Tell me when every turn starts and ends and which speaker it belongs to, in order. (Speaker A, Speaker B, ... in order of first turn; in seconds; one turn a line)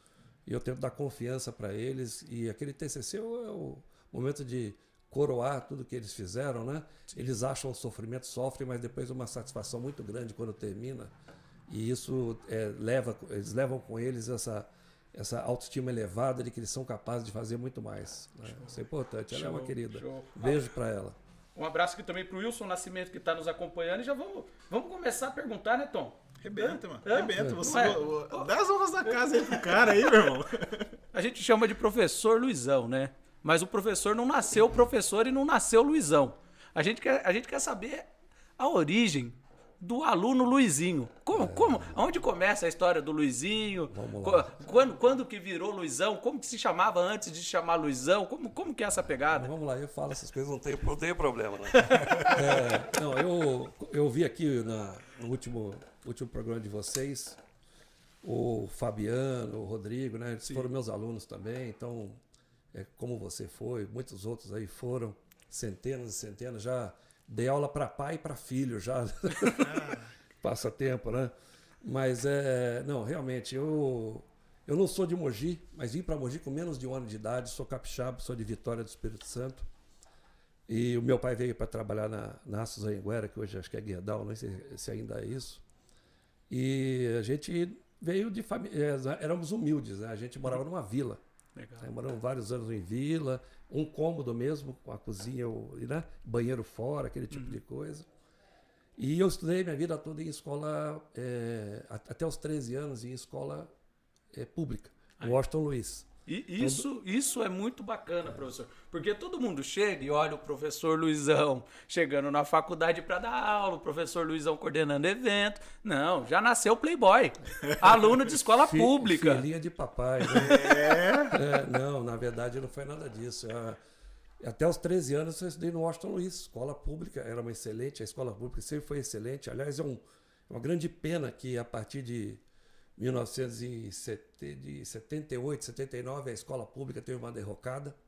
Speaker A: 0.5-11.1
Speaker A: 11.7-21.2
Speaker B: 18.5-20.6
Speaker B: 21.5-28.5
Speaker C: 26.4-30.9
Speaker A: 27.4-27.6
Speaker B: 29.1-30.0
Speaker B: 31.1-49.5
Speaker A: 41.3-41.9
Speaker A: 43.9-44.9
Speaker A: 49.3-57.4
Speaker B: 51.7-52.4
Speaker A: 58.2-62.2
Speaker A: 62.7-69.8
Speaker A: 70.4-79.7
Speaker A: 80.7-85.6
Speaker A: 86.5-91.2
Speaker B: 91.5-91.9
Speaker A: 91.8-98.1
Speaker B: 97.3-97.6
Speaker A: 99.0-103.7
Speaker A: 104.3-106.1
Speaker B: 106.3-119.4
Speaker A: 106.6-106.9
Speaker A: 118.6-123.8
Speaker C: 120.3-121.4
Speaker A: 124.4-132.4
Speaker A: 133.0-138.0